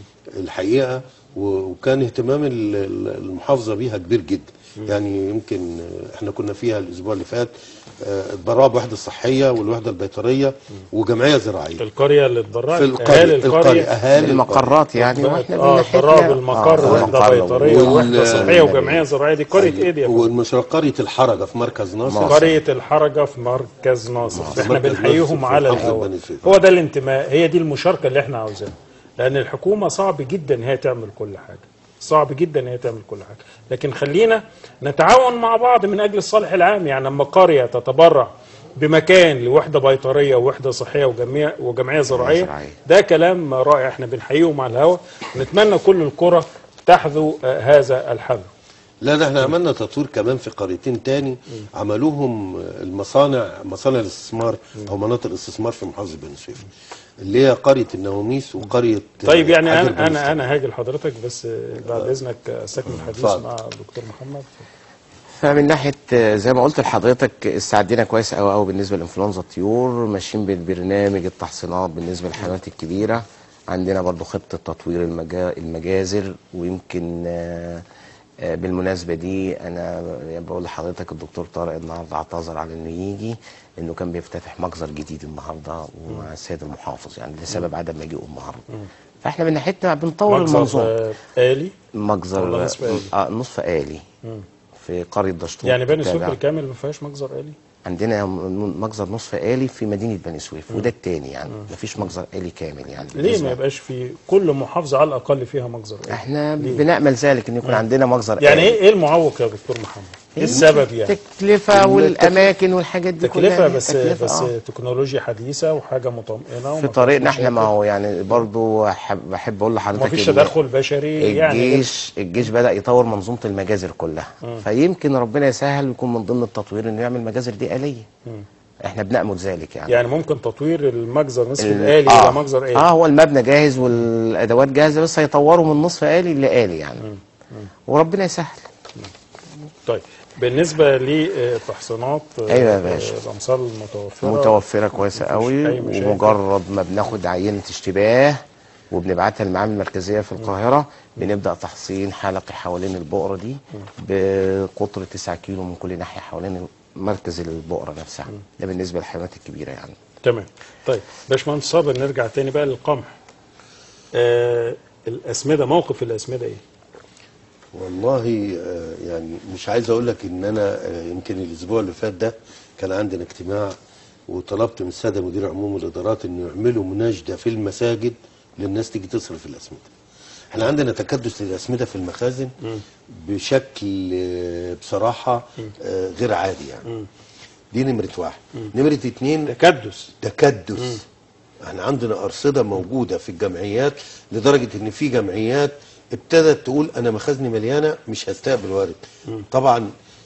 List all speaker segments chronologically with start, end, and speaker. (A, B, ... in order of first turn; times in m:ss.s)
0:00.4-0:11.8 A
0:11.8-0:13.9 B
0:12.7-0:14.7 A
0:14.1-0:19.0 C
0:15.0-0:20.3 B
0:16.8-0:17.1 A
0:17.6-0:18.6 A
0:19.5-0:22.5 A
0:22.1-0:22.6 C
0:22.3-0:48.5 B
0:24.3-0:24.6 C
0:24.4-0:26.5 A
0:42.1-0:42.8 C
0:49.0-0:56.6 A
0:57.2-1:00.4 A
0:59.2-1:04.6 B
1:01.9-1:02.1 A
1:03.0-1:03.4 A
1:05.4-1:17.8 C
1:18.4-1:28.6 C
1:29.2-1:30.9 C
1:30.3-1:31.7 B
1:31.9-1:34.0 C
1:32.4-1:33.1 B
1:34.8-1:36.4 C
1:35.6-1:37.5 B
1:37.8-1:43.6 C
1:43.2-1:46.8 B
1:46.1-1:48.8 C
1:48.4-1:51.2 B
1:50.3-1:54.5 C
1:51.7-1:52.5 A
1:53.2-1:57.7 B
1:56.7-2:00.5 C
2:00.0-2:01.9 B
2:01.2-2:08.1 C
2:08.8-2:10.0 C
2:09.9-2:12.9 B
2:11.6-2:17.0 C
2:17.0-2:17.7 B
2:17.9-2:18.7 C
2:19.8-2:24.6 B
2:22.5-2:23.1 C
2:24.2-2:40.0 C
2:25.1-2:26.4 B
2:40.2-2:43.1 B
2:44.1-2:46.6 B
2:47.7-2:53.8 A
2:54.3-2:59.9 A
3:00.5-3:02.5 A
3:03.1-3:06.8 A
3:07.7-3:09.5 A
3:09.5-3:10.1 B
3:10.2-3:11.0 A
3:11.6-3:19.9 A